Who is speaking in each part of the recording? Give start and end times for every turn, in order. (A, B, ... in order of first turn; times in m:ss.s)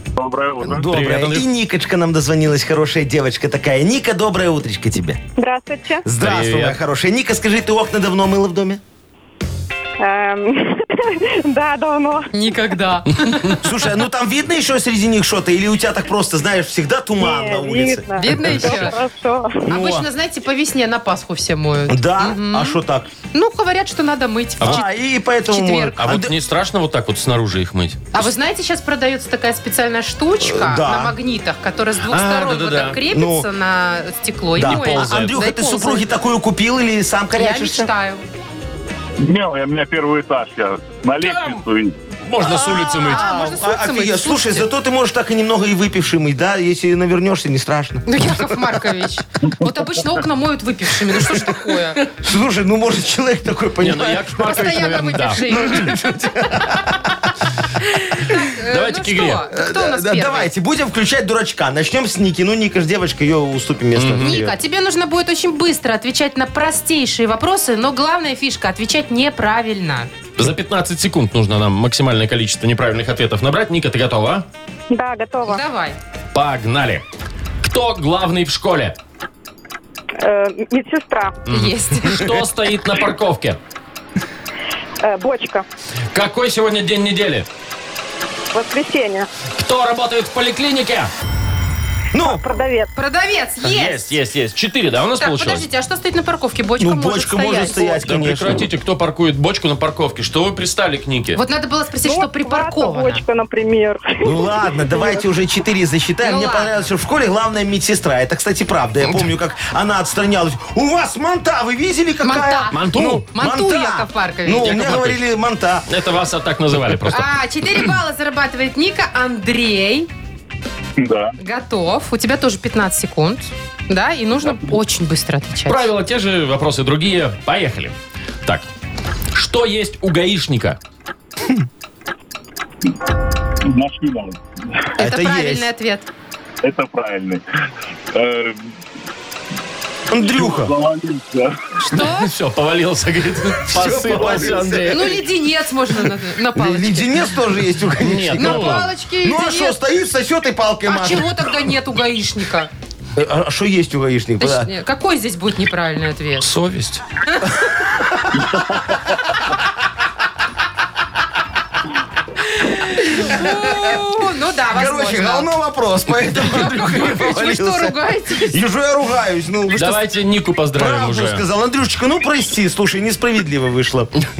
0:00.2-0:00.8 A
0:00.6-0:01.5 B
0:00.6-0:05.2 C
0:05.4-0:06.0 D
0:06.0-0:08.8 C
0:06.2-0:06.8 B
0:10.0-0:12.3 D
0:12.3-0:13.6 E
0:13.3-0:13.5 B
0:13.6-0:18.1 C
0:17.2-0:19.7 D
0:18.2-0:19.0 E
0:18.3-0:18.9 B
0:19.7-0:22.8 E
0:19.7-0:20.0 C
0:21.9-0:23.1 C
0:23.3-0:24.9 E
0:24.6-0:24.8 B
0:24.6-0:26.3 C
0:25.5-0:26.0 E
0:26.0-0:28.1 B
0:28.1-0:36.0 E
0:30.4-0:31.2 C
0:32.1-0:33.0 B
0:33.0-0:33.5 C
0:34.6-0:37.9 C
0:34.6-0:35.3 B
0:37.3-0:38.2 E
0:39.2-0:42.0 A
0:41.2-0:41.6 B
0:42.2-0:43.3 B
0:42.4-0:44.6 E
0:42.4-0:48.6 C
0:48.0-0:52.0 E
0:52.2-0:54.3 C
0:53.8-0:55.5 B
0:54.4-0:56.1 E
0:55.5-0:57.2 C
0:57.8-1:00.5 E
0:58.6-0:59.4 B
0:59.5-1:04.5 C
1:03.9-1:04.4 B
1:04.2-1:10.1 E
1:10.4-1:14.4 B
1:14.9-1:15.6 D
1:15.4-1:16.0 E
1:16.3-1:17.0 B
1:17.6-1:19.0 B
1:20.2-1:21.4 D
1:21.5-1:23.6 B
1:21.5-1:22.3 E
1:25.0-1:25.6 D
1:26.1-1:27.5 B
1:28.5-1:29.3 D
1:29.6-1:31.1 B
1:32.1-1:32.4 C
1:32.2-1:32.9 D
1:33.0-1:34.1 E
1:33.6-1:35.7 B
1:35.2-1:38.0 E
1:36.8-1:38.6 C
1:38.0-1:41.4 B
1:41.4-1:43.2 E
1:42.0-1:45.2 D
1:44.2-1:55.8 C
1:46.2-1:46.9 E
1:49.0-1:49.3 B
1:52.2-1:54.8 E
1:52.7-1:53.2 B
1:54.6-1:55.3 B
1:55.9-1:57.3 B
1:57.1-2:00.1 E
2:01.0-2:01.4 A
2:01.4-2:05.9 E
2:05.7-2:08.7 B
2:09.3-2:10.8 B
2:13.6-2:14.8 A
2:15.0-2:15.7 C
2:15.0-2:16.1 E
2:16.6-2:17.4 A
2:18.1-2:18.7 A
2:20.1-2:20.7 C
2:20.2-2:21.6 A
2:21.8-2:22.3 E
2:21.9-2:25.2 B
2:23.7-2:25.2 C
2:24.2-2:24.5 A
2:24.9-2:27.2 E
2:26.5-2:31.6 C
2:28.0-2:28.9 B
2:28.4-2:29.8 E
2:30.8-2:32.7 E
2:33.2-2:34.7 C
2:34.4-2:36.5 E
2:36.4-2:37.0 B
2:37.5-2:39.3 C
2:42.4-2:45.5 E
2:43.2-2:44.0 C
2:44.7-2:47.9 C
2:46.3-2:48.6 E
2:48.5-2:50.0 C
2:49.7-2:51.4 B
2:50.8-2:54.1 C